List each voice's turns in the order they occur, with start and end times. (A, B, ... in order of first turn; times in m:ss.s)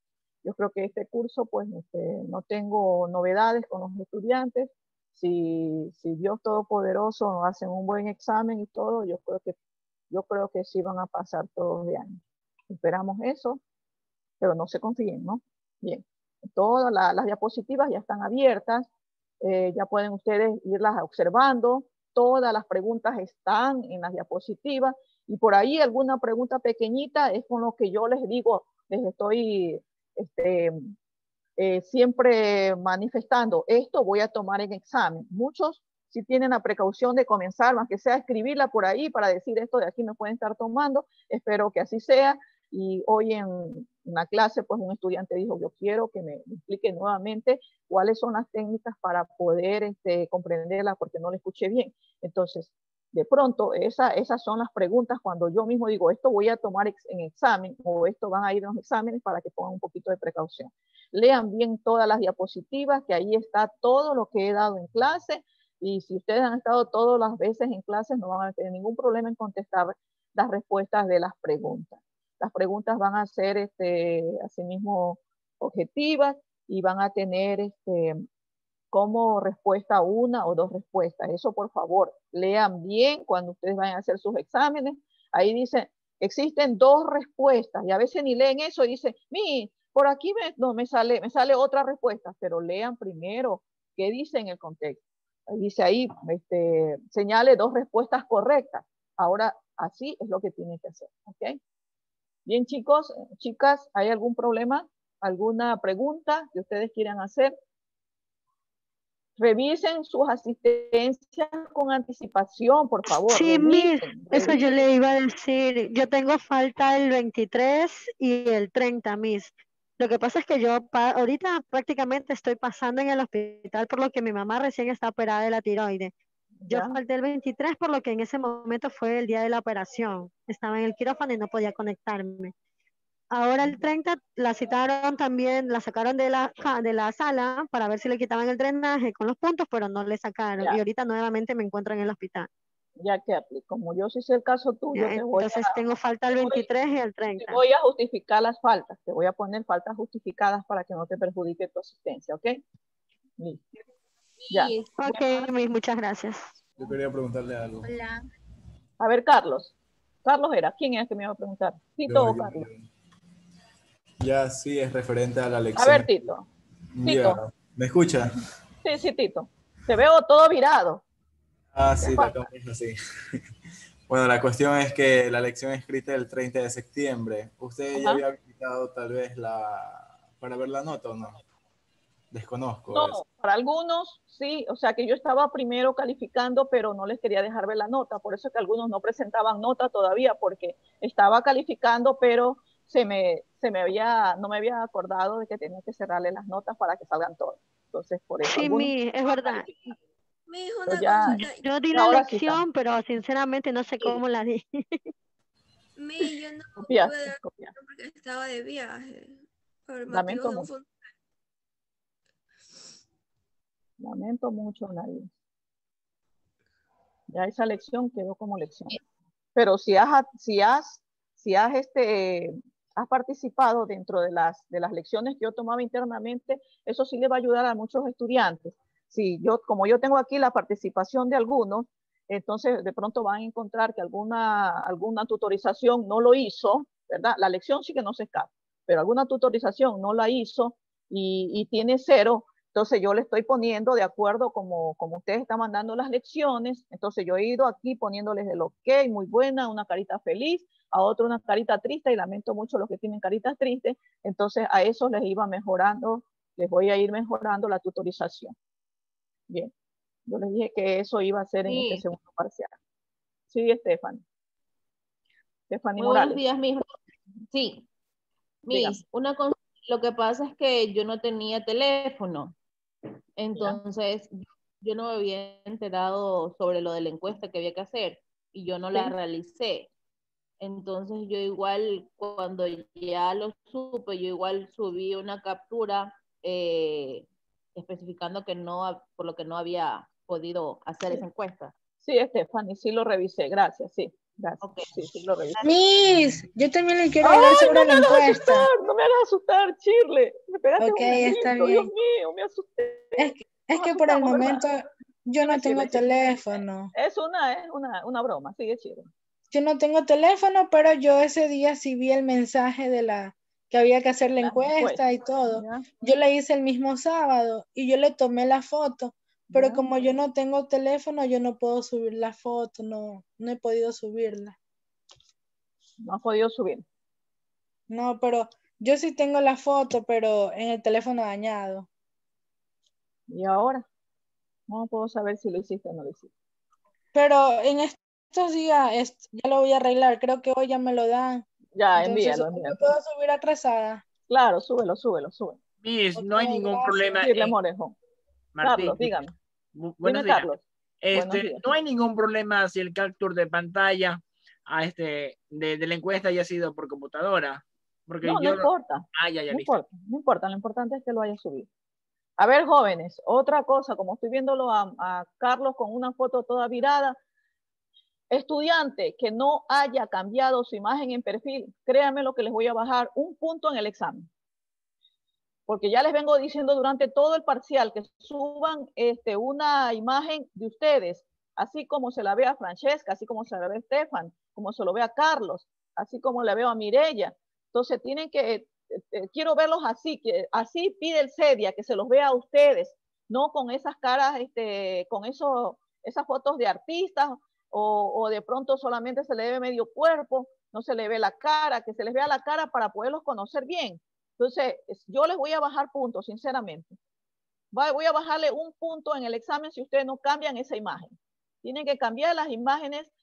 0:00.4-0:09.6 A
0:10.1-0:13.6 A
0:14.4-0:18.9 A
0:19.4-0:30.8 A
0:31.6-1:18.2 A
1:18.9-1:41.6 A
1:42.4-1:47.6 A
1:49.4-1:54.8 A
1:53.3-2:06.1 B
2:06.6-2:07.0 A
2:06.7-2:12.5 B
2:13.3-2:22.5 B
2:23.0-2:25.8 A
2:24.9-2:27.6 B
2:26.3-2:26.6 A
2:27.4-2:32.6 A
2:33.4-2:33.6 A
2:34.4-2:34.9 C
2:34.5-2:35.4 A
2:35.0-2:36.4 B
2:36.8-2:37.9 D
2:39.0-2:42.7 A
2:42.1-2:42.9 D
2:44.2-2:46.1 D
2:45.8-2:46.5 A
2:47.0-2:48.3 D
2:47.0-2:47.4 A
2:48.8-2:51.0 A
2:51.7-2:53.4 D
2:52.0-2:52.5 A
2:54.1-3:01.4 D
2:58.0-2:58.2 A
3:02.3-3:03.2 D
3:02.9-3:20.0 A
3:18.4-3:19.7 B
3:20.5-3:21.6 E
3:20.9-3:22.6 A
3:21.3-3:25.1 B
3:26.0-3:29.4 E
3:26.8-3:27.7 A
3:29.9-3:30.8 E
3:30.1-3:30.7 A
3:34.0-3:35.3 A
3:37.3-3:39.0 A
3:39.6-4:18.6 A
4:20.3-4:22.7 A
4:21.6-4:22.0 C
4:23.5-4:24.2 A
4:25.7-4:26.4 A
4:26.0-4:26.9 C
4:27.5-4:27.9 C
4:28.6-4:32.6 C
4:28.7-4:29.0 A
4:33.4-4:39.9 C
4:40.6-4:51.7 C
4:52.0-4:55.6 A
4:54.6-4:55.6 C
4:55.6-4:58.7 F
4:57.2-5:04.6 A
5:00.8-5:01.9 F
5:03.2-5:06.9 F
5:05.4-5:06.2 A
5:06.9-5:09.1 A
5:09.5-5:24.6 F
5:14.4-5:15.9 A
5:19.5-5:19.9 A
5:26.0-5:26.8 A
5:27.9-5:31.9 F
5:33.3-5:33.8 A
5:34.7-5:36.3 A
5:37.1-5:44.0 F
5:41.8-5:42.8 A
5:44.3-5:45.6 A
5:45.8-5:47.6 G
5:46.2-5:47.3 F
5:47.2-5:47.9 A
5:48.6-5:49.2 G
5:48.6-5:49.3 A
5:49.8-5:59.8 G
5:50.0-5:51.7 A
5:58.2-6:01.7 A
6:02.4-6:07.2 A
6:08.3-6:14.3 A
6:15.7-6:47.0 A
6:47.7-6:53.1 A